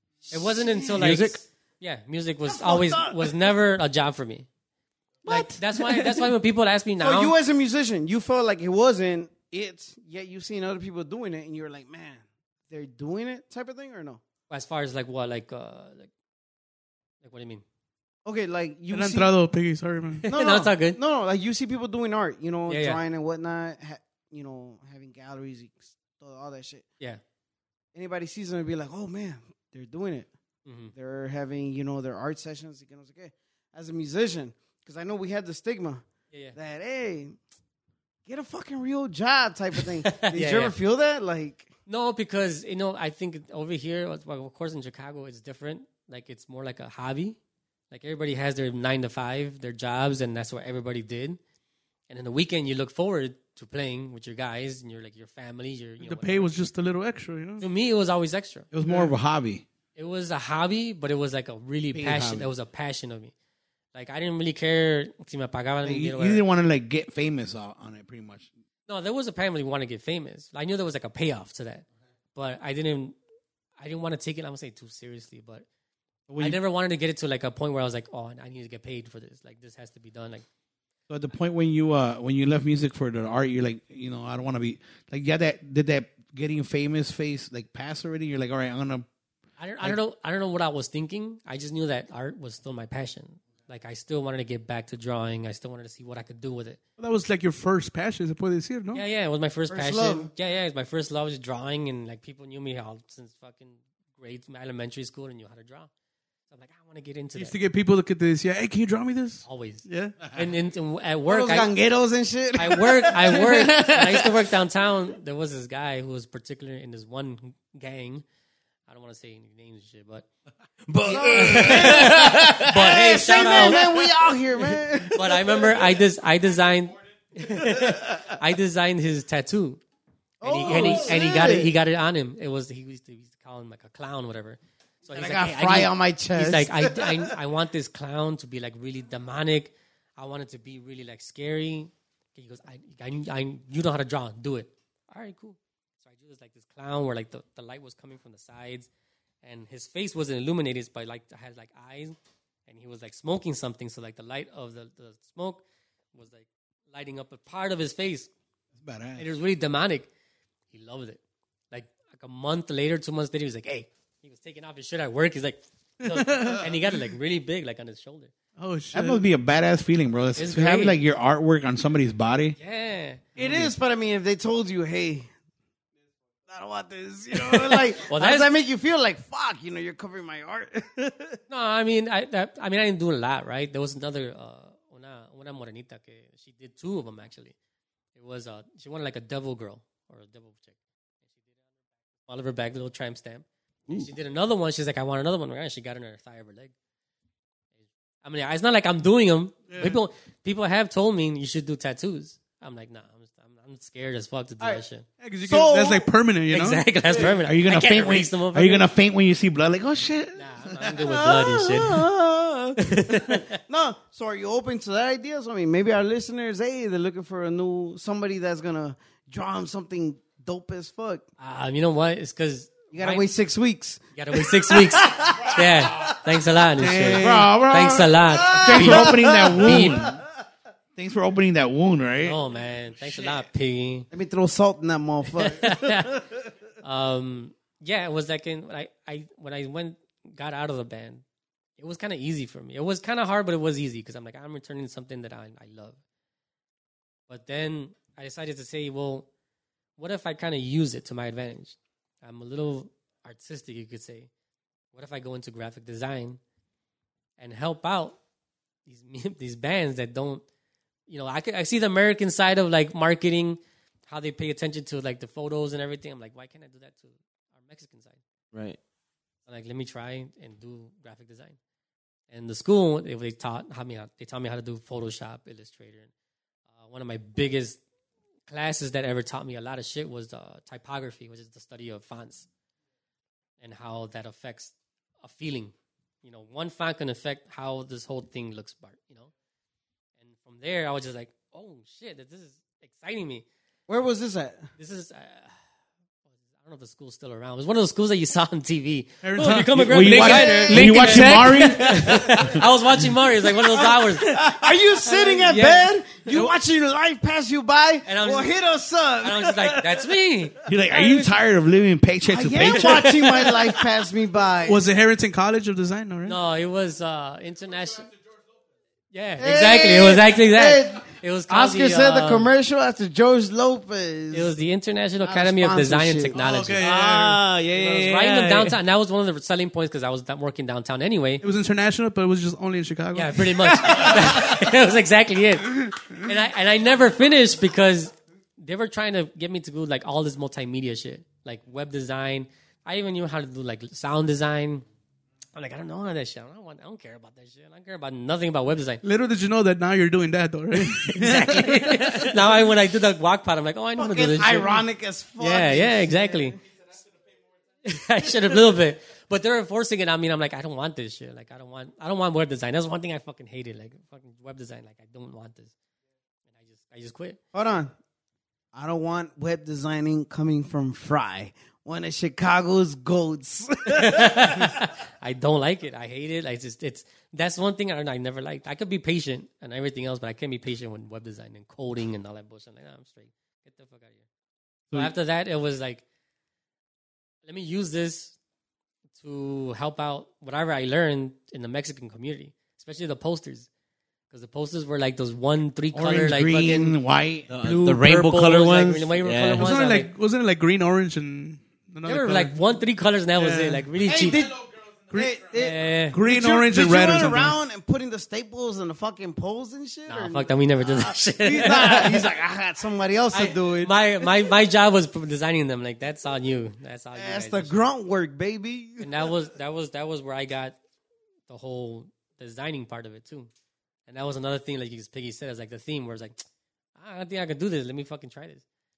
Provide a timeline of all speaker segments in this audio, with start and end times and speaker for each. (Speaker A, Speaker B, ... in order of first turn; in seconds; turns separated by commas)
Speaker A: 0.3-1.1, Speaker B: 0.3-4.5, Speaker C: 1.0-1.4, Speaker A: 2.5-3.5, Speaker A: 5.2-6.3, Speaker B: 5.3-7.3, Speaker A: 7.0-14.2, Speaker B: 14.5-16.1, Speaker B: 17.2-17.6, Speaker A: 18.2-19.3, Speaker D: 18.9-20.3, Speaker B: 20.2-21.0, Speaker A: 20.3-26.9, Speaker B: 22.7-23.0, Speaker A: 27.9-30.3, Speaker B: 30.6-30.9, Speaker A: 30.9-36.0, Speaker B: 36.3-36.6, Speaker A: 36.5-37.4, Speaker A: 38.3-41.7, Speaker B: 40.0-40.8, Speaker B: 41.9-47.4, Speaker B: 47.9-51.4, Speaker B: 52.1-56.5, Speaker D: 56.0-57.6, Speaker B: 57.6-58.7, Speaker E: 58.7-59.6, Speaker B: 60.0-63.3, Speaker E: 61.9-62.5, Speaker B: 63.9-66.4, Speaker E: 65.8-68.5, Speaker B: 68.9-73.2, Speaker B: 73.8-75.6, Speaker E: 76.3-76.6, Speaker B: 76.4-80.5, Speaker E: 81.1-89.1, Speaker B: 89.6-96.8, Speaker D: 97.0-99.0, Speaker B: 98.9-105.9, Speaker A: 99.7-100.3, Speaker B: 106.5-107.6, Speaker D: 107.4-110.2, Speaker B: 109.5-111.7, Speaker A: 111.3-113.5, Speaker B: 112.6-118.2, Speaker C: 113.4-114.3, Speaker B: 118.9-120.2, Speaker C: 120.9-124.0, Speaker A: 121.0-125.4, Speaker B: 121.1-123.9, Speaker B: 125.1-129.8, Speaker A: 130.4-131.7, Speaker B: 130.4-148.9, Speaker A: 135.1-137.3, Speaker B: 149.4-152.2, Speaker B: 152.7-155.6, Speaker B: 156.1-158.3, Speaker E: 158.8-159.2, Speaker B: 159.2-160.1, Speaker B: 160.7-161.2, Speaker B: 161.7-168.3, Speaker D: 166.0-166.7, Speaker D: 168.6-169.2, Speaker E: 168.9-172.6, Speaker B: 170.4-171.0, Speaker B: 172.6-173.2, Speaker E: 173.4-173.8, Speaker A: 173.4-175.3, Speaker A: 176.5-181.4, Speaker B: 177.3-178.5, Speaker B: 181.5-187.5, Speaker B: 188.2-190.8, Speaker B: 192.3-196.7, Speaker B: 198.2-205.1, Speaker D: 199.7-200.0, Speaker D: 205.2-207.3, Speaker A: 205.4-206.1, Speaker B: 206.5-208.9, Speaker E: 207.4-210.8, Speaker B: 210.4-212.1, Speaker A: 210.8-221.3, Speaker B: 212.8-213.6, Speaker B: 221.4-223.3, Speaker A: 222.9-225.7, Speaker B: 224.2-230.1, Speaker D: 226.8-227.5, Speaker E: 227.2-230.2, Speaker A: 228.3-230.1, Speaker E: 231.0-232.4, Speaker B: 232.2-234.1, Speaker A: 234.1-236.3, Speaker B: 235.4-236.1, Speaker B: 236.8-241.2, Speaker B: 241.8-246.0, Speaker B: 247.3-249.3, Speaker B: 250.0-254.3, Speaker B: 254.9-256.4, Speaker B: 257.4-258.2, Speaker B: 258.9-260.4, Speaker B: 261.1-268.2, Speaker C: 268.5-268.8, Speaker B: 269.5-271.6, Speaker B: 272.3-276.1, Speaker B: 276.8-277.8, Speaker B: 278.5-282.5, Speaker B: 283.6-289.3, Speaker B: 290.2-293.4, Speaker A: 293.9-294.6, Speaker B: 294.8-295.5, Speaker B: 296.6-304.4, Speaker D: 299.2-300.0, Speaker E: 299.9-302.2, Speaker C: 299.9-302.6, Speaker A: 300.2-300.8, Speaker A: 303.7-310.1, Speaker B: 305.1-305.9, Speaker B: 308.1-308.5, Speaker B: 309.2-311.3, Speaker E: 310.7-313.1, Speaker A: 312.3-314.8, Speaker B: 312.7-313.7, Speaker D: 314.6-316.4, Speaker B: 316.2-318.1, Speaker B: 319.1-322.5, Speaker A: 319.4-324.5, Speaker B: 324.3-326.9, Speaker A: 325.2-326.4, Speaker D: 326.4-327.6, Speaker C: 326.8-328.8, Speaker B: 327.8-331.4, Speaker D: 331.4-334.6, Speaker B: 333.1-344.9, Speaker B: 345.5-349.0, Speaker D: 349.0-352.5, Speaker B: 350.8-354.8, Speaker A: 354.0-356.5, Speaker B: 355.4-356.6, Speaker B: 357.8-365.7, Speaker B: 366.5-367.4, Speaker A: 367.5-367.9, Speaker A: 368.7-374.7, Speaker B: 373.9-384.2, Speaker B: 384.9-386.0, Speaker B: 387.4-388.4, Speaker B: 389.2-393.7, Speaker B: 394.3-397.0, Speaker E: 395.9-397.5, Speaker C: 397.5-399.7, Speaker B: 397.5-400.1, Speaker D: 399.5-402.5, Speaker B: 402.0-404.5, Speaker D: 403.4-403.9, Speaker A: 404.0-404.6, Speaker D: 405.1-405.4, Speaker A: 405.1-414.0, Speaker B: 405.5-406.2, Speaker D: 406.1-407.5, Speaker B: 410.1-412.3, Speaker B: 413.3-417.8, Speaker A: 417.1-419.1, Speaker B: 419.0-420.8, Speaker B: 421.5-423.5, Speaker B: 424.1-426.4, Speaker B: 427.0-428.6